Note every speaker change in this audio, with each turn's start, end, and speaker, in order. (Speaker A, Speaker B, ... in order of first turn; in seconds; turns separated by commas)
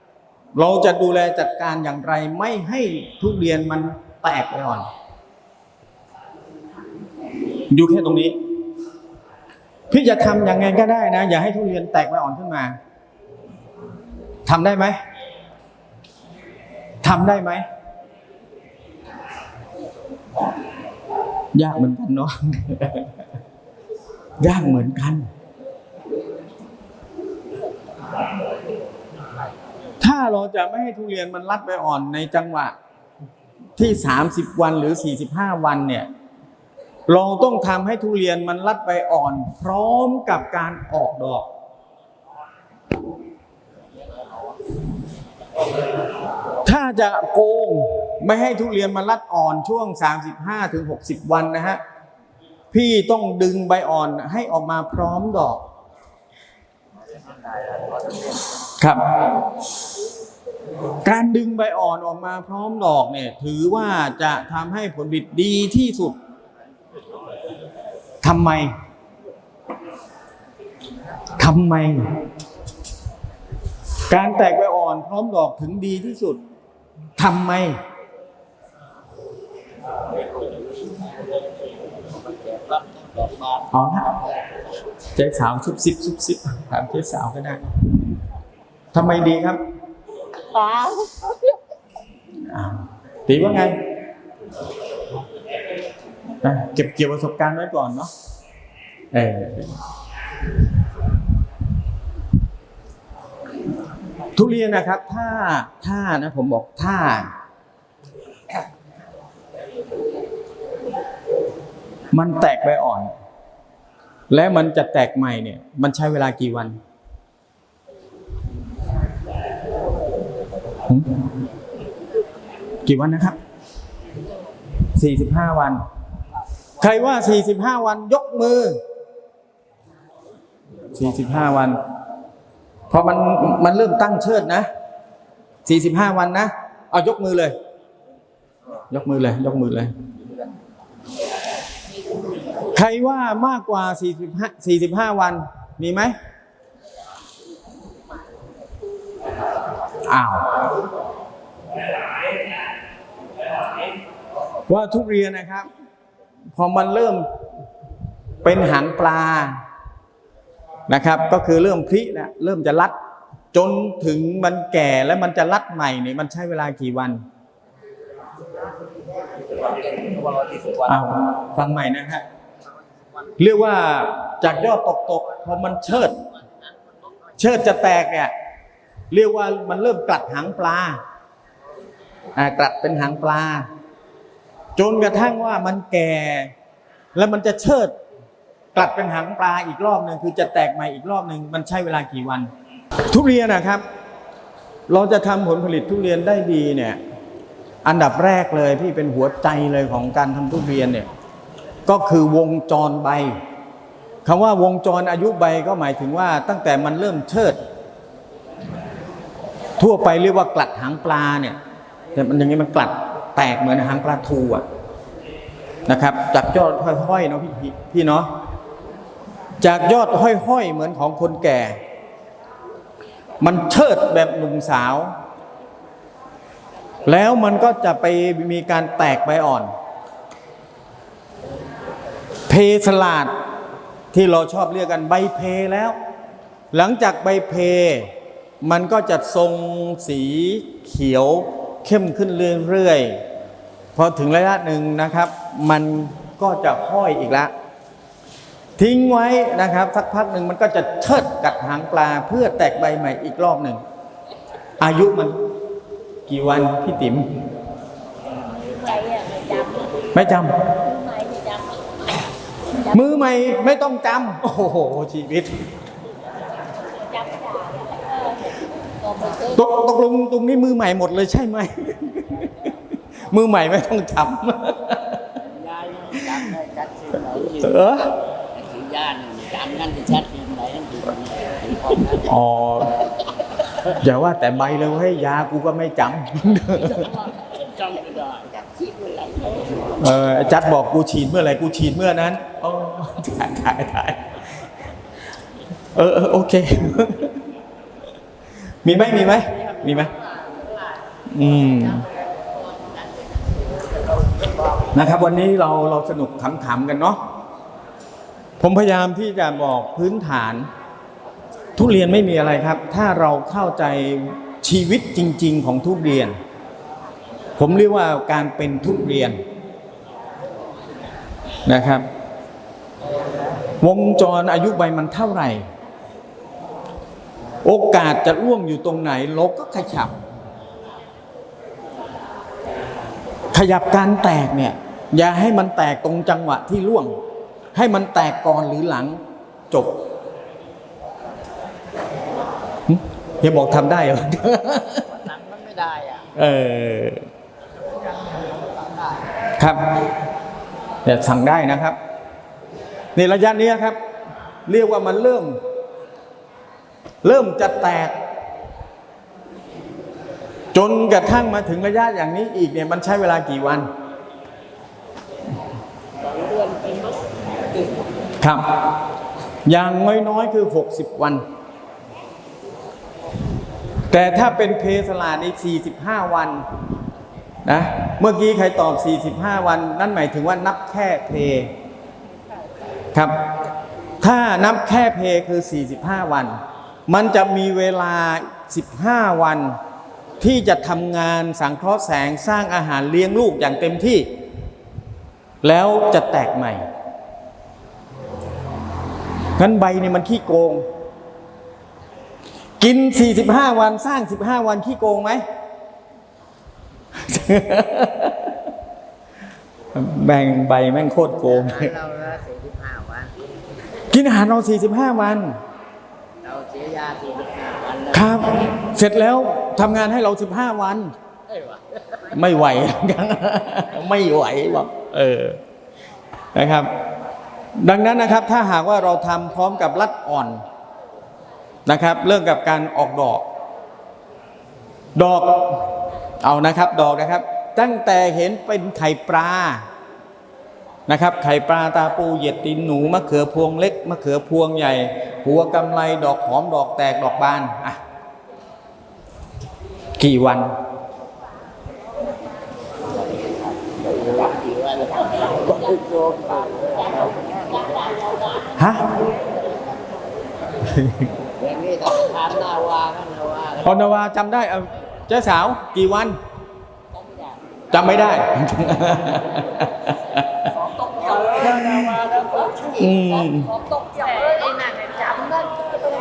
Speaker A: 0.6-4.9, Speaker A: 7.7-8.4, Speaker A: 9.9-12.8, Speaker A: 14.4-15.0, Speaker A: 17.0-17.6, Speaker A: 21.5-23.1, Speaker A: 24.4-25.3, Speaker A: 30.0-32.7, Speaker A: 33.8-36.1, Speaker A: 37.1-41.5, Speaker A: 46.6-51.8, Speaker A: 52.7-55.6, Speaker B: 57.5-58.3, Speaker A: 58.6-59.3, Speaker A: 61.0-66.2, Speaker A: 68.2-68.7, Speaker A: 71.4-72.1, Speaker A: 74.1-76.4, Speaker A: 77.2-77.8, Speaker B: 82.2-83.7, Speaker A: 83.7-84.2, Speaker A: 85.1-87.7, Speaker A: 88.9-89.6, Speaker C: 90.5-91.5, Speaker A: 92.4-93.8, Speaker A: 96.4-98.1, Speaker A: 99.1-99.8, Speaker A: 104.3-107.3, Speaker A: 112.1-113.1, Speaker A: 114.3-116.8, Speaker A: 120.8-121.2, Speaker A: 122.8-123.4, Speaker A: 124.9-125.8, Speaker A: 126.8-128.8, Speaker A: 130.9-131.8, Speaker A: 132.9-134.7, Speaker A: 135.7-137.5, Speaker A: 138.9-139.9, Speaker A: 142.7-146.2, Speaker A: 150.0-150.6, Speaker A: 154.7-155.7, Speaker A: 156.6-157.2, Speaker A: 158.4-159.6, Speaker A: 160.9-162.9, Speaker A: 163.5-167.2, Speaker B: 169.9-171.0, Speaker A: 170.8-172.2, Speaker A: 173.4-176.2, Speaker A: 177.4-178.3, Speaker A: 179.1-181.0, Speaker A: 182.4-183.7, Speaker A: 184.8-186.5, Speaker A: 187.1-187.9, Speaker A: 188.7-192.5, Speaker A: 193.1-193.8, Speaker A: 194.9-197.0, Speaker A: 197.8-201.1, Speaker A: 201.8-203.3, Speaker A: 204.2-207.6, Speaker A: 209.8-211.6, Speaker A: 212.1-214.6, Speaker A: 215.9-218.3, Speaker A: 219.6-221.8, Speaker A: 223.4-225.1, Speaker A: 227.1-229.7, Speaker A: 232.5-233.3, Speaker A: 234.1-235.9, Speaker A: 236.7-243.2, Speaker A: 243.9-247.5, Speaker A: 248.8-253.8, Speaker A: 254.8-255.4, Speaker A: 256.3-257.4, Speaker C: 258.6-260.0, Speaker A: 260.1-260.8, Speaker C: 260.9-261.8, Speaker A: 262.8-265.7, Speaker C: 267.1-268.6, Speaker A: 269.4-272.7, Speaker A: 273.2-275.3, Speaker B: 275.4-278.0, Speaker A: 276.2-276.5, Speaker A: 277.6-278.1, Speaker B: 278.5-282.3, Speaker A: 282.2-282.9, Speaker A: 283.8-287.1, Speaker B: 286.9-290.1, Speaker A: 290.0-294.4, Speaker A: 295.9-297.4, Speaker A: 298.8-300.1, Speaker A: 301.2-302.1, Speaker A: 304.9-307.2, Speaker A: 308.6-310.7, Speaker A: 311.8-316.4, Speaker A: 317.6-319.4, Speaker A: 321.6-322.1, Speaker A: 323.8-325.7, Speaker A: 327.6-330.1, Speaker A: 333.5-337.2, Speaker A: 337.7-340.0, Speaker A: 342.9-345.1, Speaker B: 345.0-346.3, Speaker A: 346.3-347.2, Speaker B: 348.3-349.3, Speaker A: 349.5-350.0, Speaker A: 351.0-352.0, Speaker A: 353.1-354.0, Speaker A: 354.6-355.6, Speaker A: 357.2-358.2, Speaker A: 360.7-363.9, Speaker B: 366.4-367.1, Speaker A: 368.4-368.7, Speaker A: 369.6-371.4, Speaker A: 374.1-376.6, Speaker A: 377.6-381.7, Speaker A: 383.1-383.4, Speaker A: 384.2-389.8, Speaker A: 390.4-394.3, Speaker A: 395.6-396.9, Speaker A: 399.6-400.8, Speaker A: 402.8-405.4, Speaker A: 407.1-408.6, Speaker A: 409.9-411.9, Speaker B: 411.5-413.4, Speaker A: 414.1-415.6, Speaker B: 416.4-418.4, Speaker A: 418.1-421.1, Speaker B: 421.5-422.2, Speaker A: 422.3-425.6, Speaker A: 426.5-426.9, Speaker A: 427.8-430.6, Speaker A: 431.9-433.4, Speaker A: 435.1-439.8, Speaker A: 441.1-448.0, Speaker A: 450.2-450.7, Speaker B: 453.0-458.7, Speaker A: 458.7-459.1, Speaker A: 460.8-461.3, Speaker B: 461.6-463.9, Speaker A: 463.8-466.4, Speaker A: 467.9-470.8, Speaker B: 470.9-472.9, Speaker A: 471.6-472.2, Speaker A: 472.9-473.8, Speaker B: 473.9-475.8, Speaker C: 474.2-474.9